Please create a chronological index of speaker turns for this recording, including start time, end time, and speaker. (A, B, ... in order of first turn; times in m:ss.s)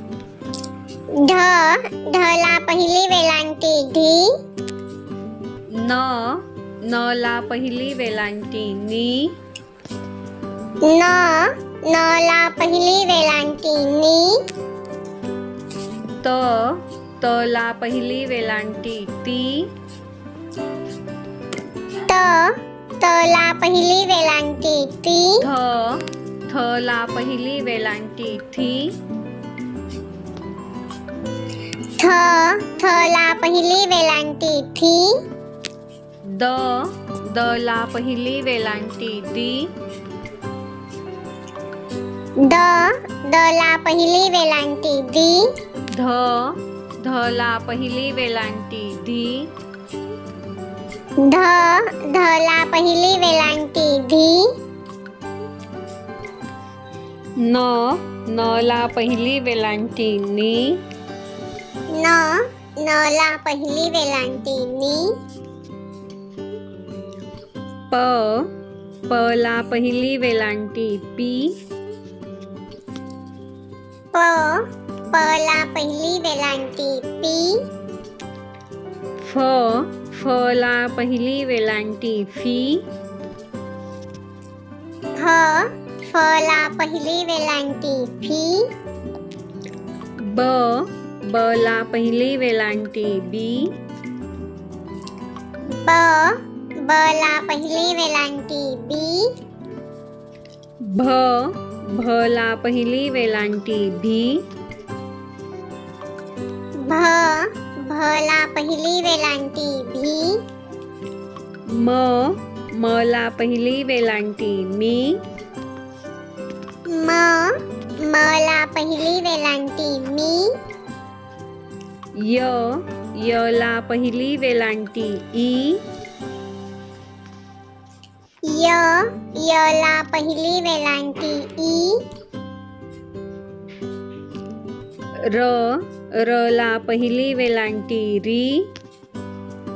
0:01.1-0:04.3 A
0:05.7-0:09.4 B
0:10.8-0:14.4 A
0:16.2-0:19.7 B
0:22.0-0:25.5 A
0:25.4-0:29.0 B
0:32.0-0:35.2 A
0:36.2-0:39.7 B
0:42.4-0:45.5 A
0:45.9-0:49.5 B
0:51.2-0:54.5 A
0:57.4-1:00.8 B
1:01.9-1:05.1 A
1:07.9-1:08.5 B
1:09.1-1:11.6 B
1:14.1-1:17.6 A
1:19.2-1:22.8 B
1:25.2-1:28.7 A
1:30.2-1:33.7 B
1:35.8-1:39.3 A
1:40.8-1:44.4 B
1:46.8-1:50.4 A
1:51.7-1:55.2 B
1:56.8-2:00.5 A
2:02.1-2:05.8 B
2:08.4-2:12.0 A
2:15.2-2:18.7 B